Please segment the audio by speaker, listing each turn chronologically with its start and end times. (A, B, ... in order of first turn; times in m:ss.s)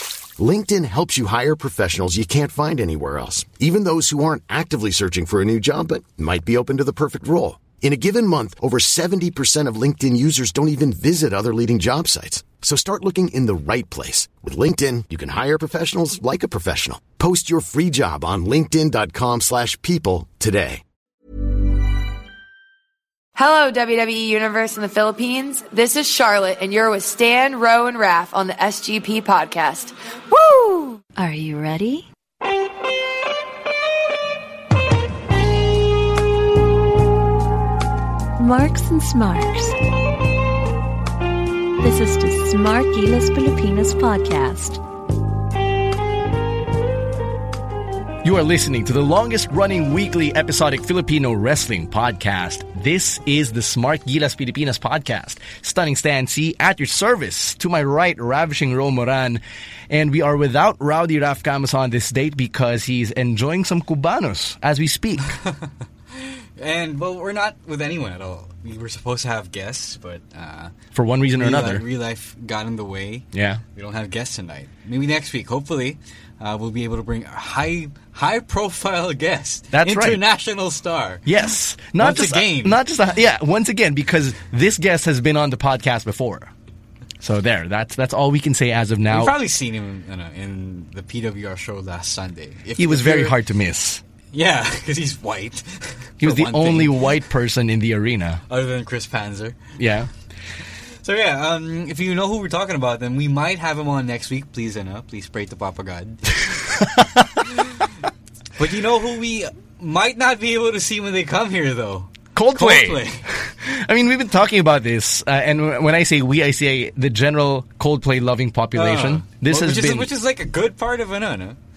0:00.4-0:20.8 A
0:23.3-0:29.9 B
0:30.3-0:32.1 C
0:38.4-0:39.8 C
0:41.8-0:44.8 C
0:48.2-1:05.4 D
1:06.1-1:10.7 E
1:10.9-1:11.8 D
1:11.4-1:21.3 E
1:13.3-1:13.6 D
1:19.7-1:20.2 D
1:21.2-1:26.5 D
1:22.0-1:22.8 E
1:27.2-1:29.3 D
1:29.1-1:33.4 E
1:32.8-1:34.0 D
1:34.3-1:37.0 E
1:36.2-1:38.4 D
1:38.5-1:39.8 E
1:39.8-1:40.1 D
1:40.6-1:46.5 E
1:46.6-1:47.5 D
1:48.6-1:53.3 E
1:52.3-2:00.1 D
1:58.7-2:01.6 E